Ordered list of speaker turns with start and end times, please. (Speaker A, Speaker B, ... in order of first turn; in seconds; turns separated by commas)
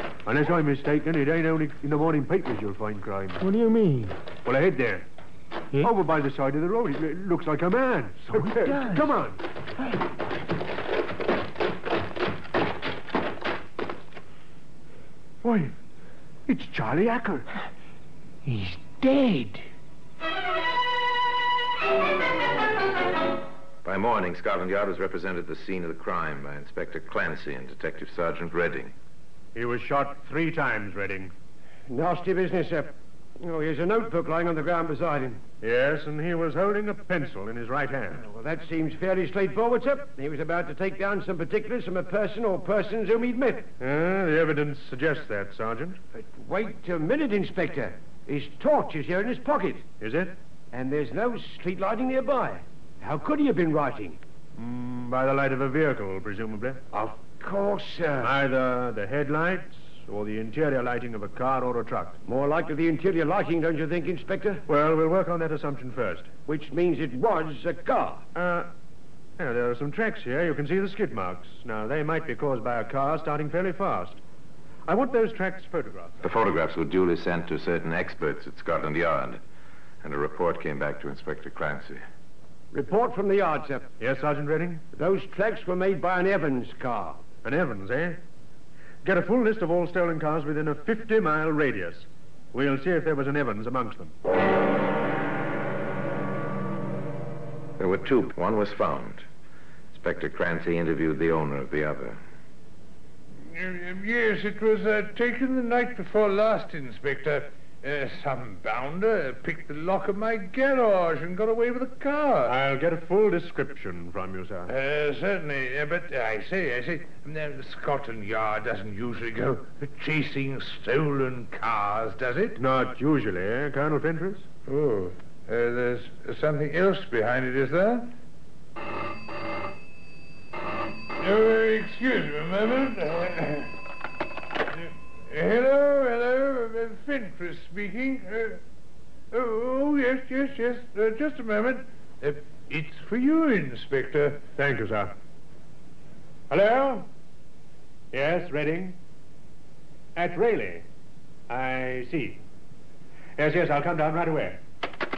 Speaker A: 0.2-3.4, Speaker B: 3.4-4.2, Speaker A: 4.4-5.0, Speaker A: 5.7-9.4, Speaker B: 8.3-9.2, Speaker A: 15.4-15.7, Speaker A: 16.5-17.4, Speaker B: 18.4-19.6, Speaker C: 23.8-28.9, Speaker A: 29.5-31.3, Speaker D: 31.9-35.4, Speaker A: 35.6-38.2, Speaker D: 38.2-43.7, Speaker A: 43.8-46.0, Speaker D: 46.1-49.8, Speaker A: 50.0-50.3, Speaker D: 50.7-54.2, Speaker A: 54.6-56.8, Speaker D: 56.9-58.3, Speaker A: 58.2-62.2, Speaker D: 62.2-64.6, Speaker A: 64.7-66.3, Speaker D: 66.5-68.2, Speaker A: 68.3-68.7, Speaker A: 69.4-74.2, Speaker A: 74.9-76.2, Speaker C: 76.2-79.4, Speaker C: 80.0-82.0, Speaker D: 82.7-83.9, Speaker A: 84.0-84.8, Speaker D: 84.9-87.2, Speaker A: 87.4-88.2, Speaker A: 89.0-94.1, Speaker C: 97.8-99.2, Speaker C: 99.9-102.2, Speaker E: 103.5-112.5, Speaker A: 112.5-114.7, Speaker E: 114.7-122.6, Speaker A: 122.5-124.5, Speaker E: 124.7-128.1, Speaker E: 131.2-133.7, Speaker E: 134.8-138.6, Speaker E: 139.3-144.4, Speaker A: 144.6-145.1, Speaker A: 146.5-147.1, Speaker A: 148.1-149.0, Speaker A: 150.1-150.8, Speaker A: 151.5-152.4, Speaker A: 153.4-154.6